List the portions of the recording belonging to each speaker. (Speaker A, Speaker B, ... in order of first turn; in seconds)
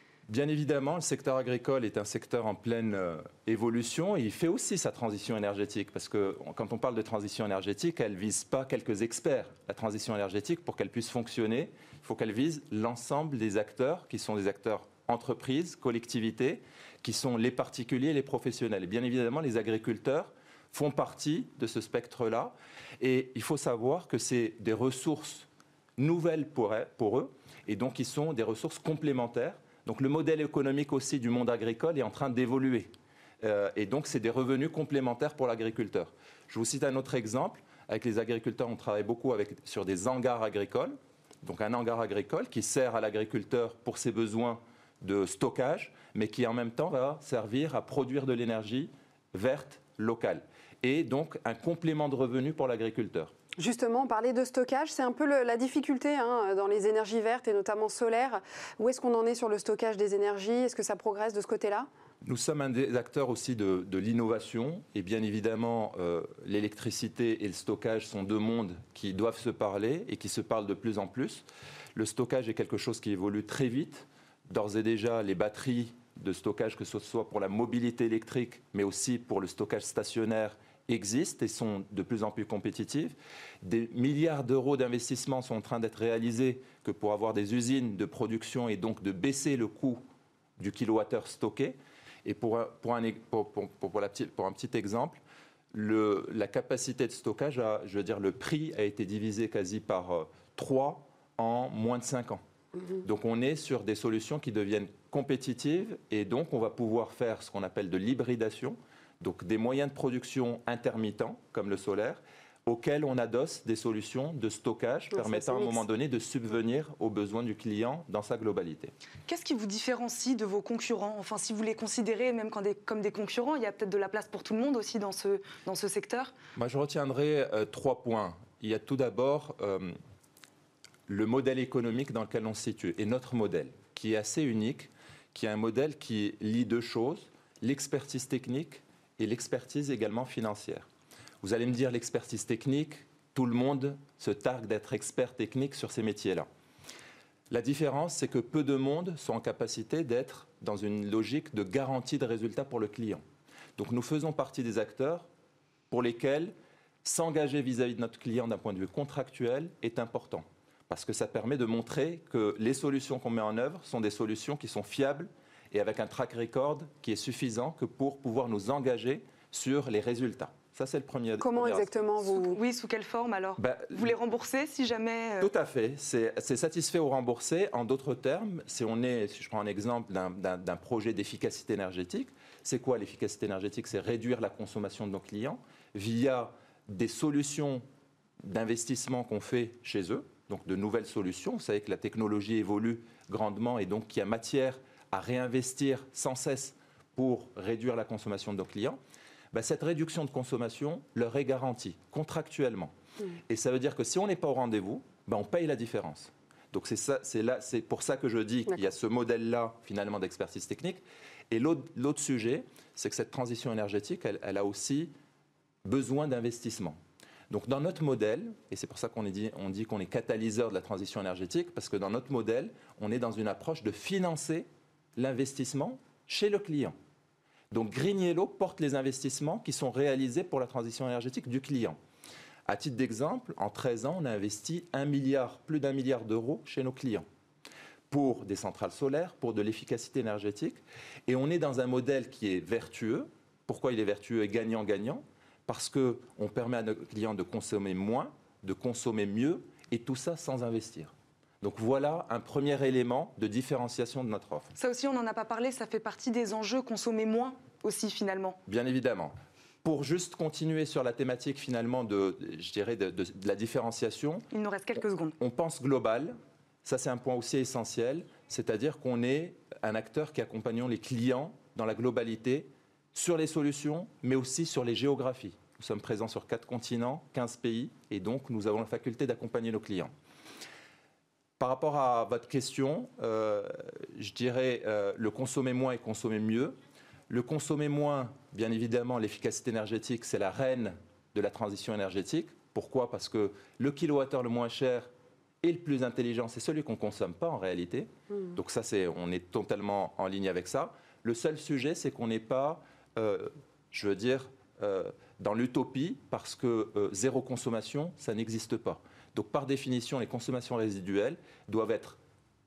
Speaker A: 0.3-32.9, 33.4-53.3, 62.2-90.0, 90.6-95.2, 95.7-102.4, 103.0-118.9, 126.6-130.0, 131.1-140.9, 141.4-146.5, 147.5-153.2, 153.8-155.3, 155.9-171.9, 173.6-174.1, 175.4-187.8, 188.4-199.0, 199.5-202.9, 203.5-215.1, 215.8-217.0, 217.5-226.9, 227.7-232.0, 232.7-237.2, 238.1-254.7, 258.7-264.5, 265.4-280.1, 281.6-286.8, 287.3-295.1, 295.6-312.2
Speaker B: 53.6-61.9, 115.2-115.8, 171.4-172.6
Speaker C: 119.3-126.3, 172.3-175.5, 254.8-258.6, 264.5-265.4